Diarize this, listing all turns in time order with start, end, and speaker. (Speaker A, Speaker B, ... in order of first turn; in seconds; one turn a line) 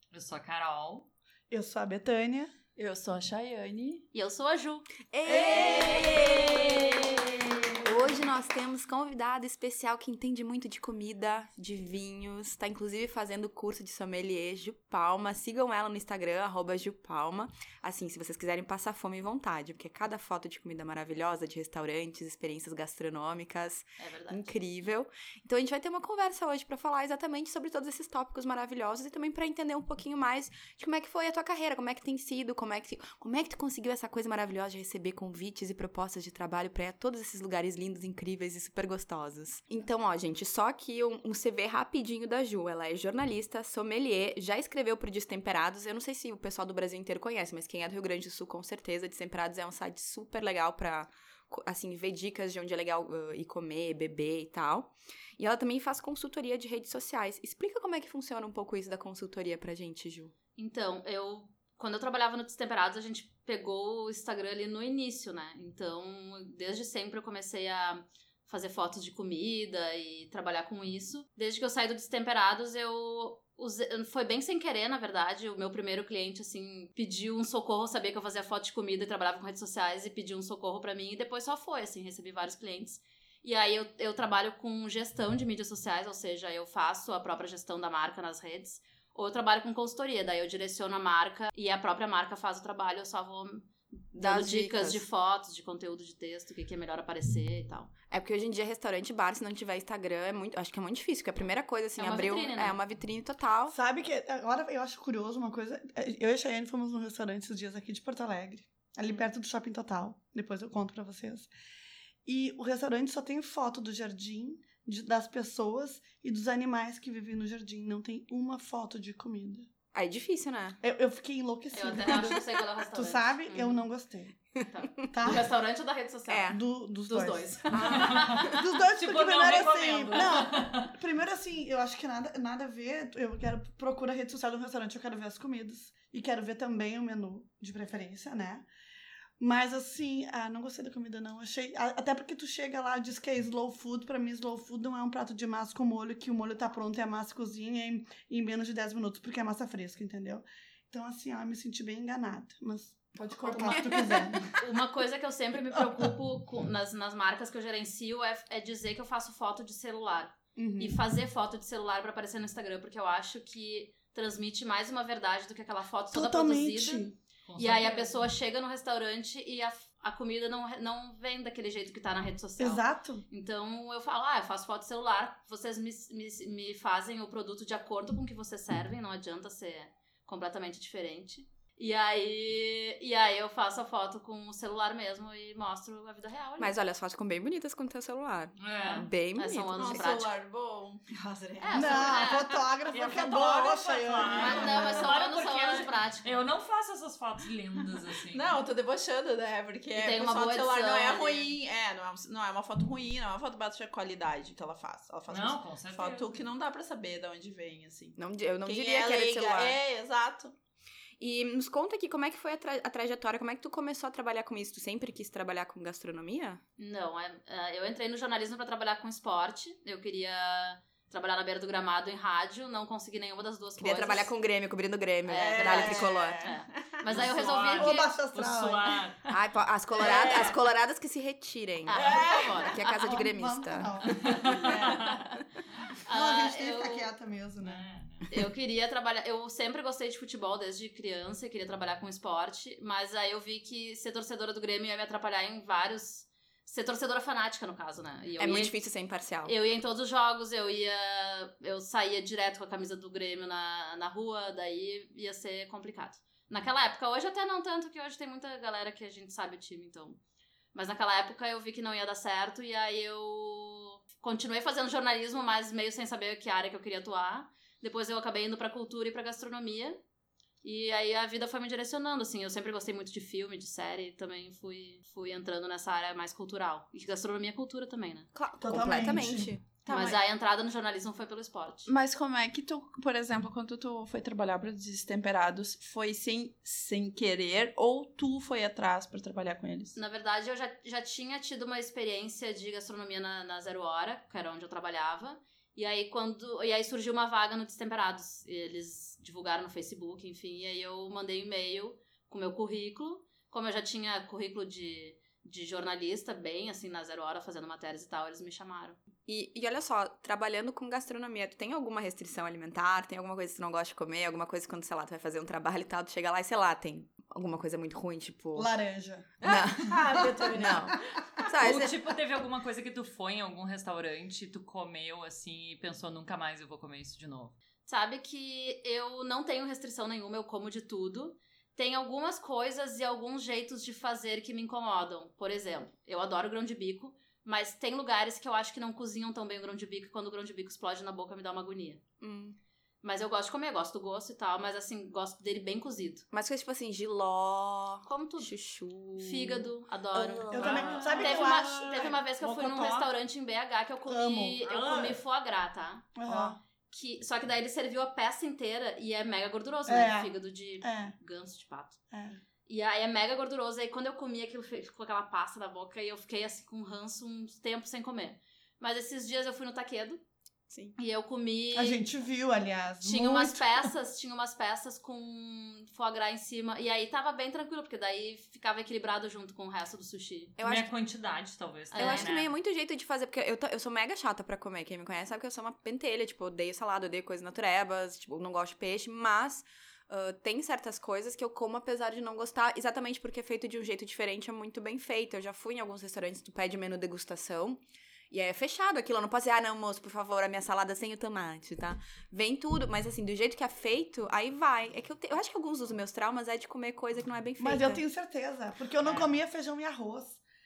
Speaker A: 0.1-1.1
Speaker B: 1.5-2.5
Speaker C: 2.8-4.1
Speaker D: 4.1-4.9
Speaker E: 5.1-7.0
Speaker C: 5.3-7.5
Speaker B: 5.5-6.1
Speaker D: 5.7-6.2
Speaker E: 7.8-60.3
Speaker D: 24.0-24.5
Speaker D: 60.6-97.9
Speaker E: 94.2-95.0
Speaker E: 98.1-103.8
Speaker D: 102.0-102.8
Speaker B: 103.7-111.5
Speaker B: 112.2-119.7
Speaker E: 119.9-120.8
Speaker B: 120.8-124.4
Speaker D: 121.7-123.8
Speaker E: 124.6-125.3
Speaker D: 124.7-128.5
Speaker B: 125.1-125.5
Speaker E: 126.3-126.6
Speaker B: 126.5-138.7
Speaker E: 127.7-128.6
Speaker A: 127.9-130.9
Speaker B: 139.4-154.4
Speaker C: 153.2-154.2
Speaker D: 154.6-186.7
Speaker B: 160.6-161.0
Speaker B: 166.1-167.1
Speaker A: 167.4-168.2
Speaker B: 172.6-173.2
Speaker E: 186.6-190.1
Speaker A: 188.6-189.1
Speaker D: 189.4-190.3
Speaker C: 189.8-192.3
Speaker D: 191.6-192.6
Speaker B: 191.7-195.1
Speaker A: 192.9-198.6
Speaker D: 194.3-196.4
Speaker C: 194.3-195.0
Speaker C: 198.2-210.5
Speaker D: 199.9-201.5
Speaker A: 205.3-206.3
Speaker E: 208.2-209.8
Speaker E: 211.2-216.6
Speaker D: 216.8-224.3
Speaker E: 223.8-226.5
Speaker C: 225.3-227.4
Speaker D: 225.3-228.1
Speaker A: 227.1-229.3
Speaker B: 227.7-229.0
Speaker E: 229.3-234.7
Speaker A: 230.0-230.6
Speaker D: 230.2-230.5
Speaker D: 231.9-232.8
Speaker C: 231.9-232.7
Speaker B: 232.9-235.0
Speaker A: 234.2-235.3
Speaker D: 236.1-237.1
Speaker B: 236.1-237.8
Speaker A: 237.6-238.3
Speaker D: 238.3-248.8
Speaker E: 248.4-249.6
Speaker D: 249.4-260.2
Speaker D: 260.7-270.0
Speaker D: 270.6-278.3
Speaker E: 278.3-279.8
Speaker B: 278.6-279.5
Speaker C: 279.9-280.2
Speaker D: 279.9-281.9
Speaker C: 281.9-290.0
Speaker D: 290.0-309.0
Speaker E: 309.3-318.7
Speaker B: 318.6-321.0
Speaker E: 319.4-322.0
Speaker C: 319.9-320.8
Speaker A: 320.0-320.9
Speaker A: 321.6-327.6
Speaker D: 327.9-342.0
Speaker E: 342.2-342.6
Speaker D: 343.0-346.3
Speaker E: 346.3-351.1
Speaker D: 348.1-348.5
Speaker D: 349.2-356.1
Speaker B: 350.5-352.0
Speaker A: 350.6-353.1
Speaker B: 354.1-354.6
Speaker A: 354.6-355.2
Speaker B: 356.2-356.6
Speaker D: 356.9-362.0
Speaker B: 359.9-361.1
Speaker B: 362.1-362.4
Speaker D: 362.7-370.2
Speaker E: 370.7-371.0
Speaker D: 371.0-372.1
Speaker B: 371.7-373.9
Speaker D: 373.0-380.6
Speaker E: 380.6-380.9
Speaker A: 380.6-382.5
Speaker D: 381.9-382.3
Speaker E: 382.0-408.0
Speaker B: 407.6-410.4
Speaker A: 409.0-409.3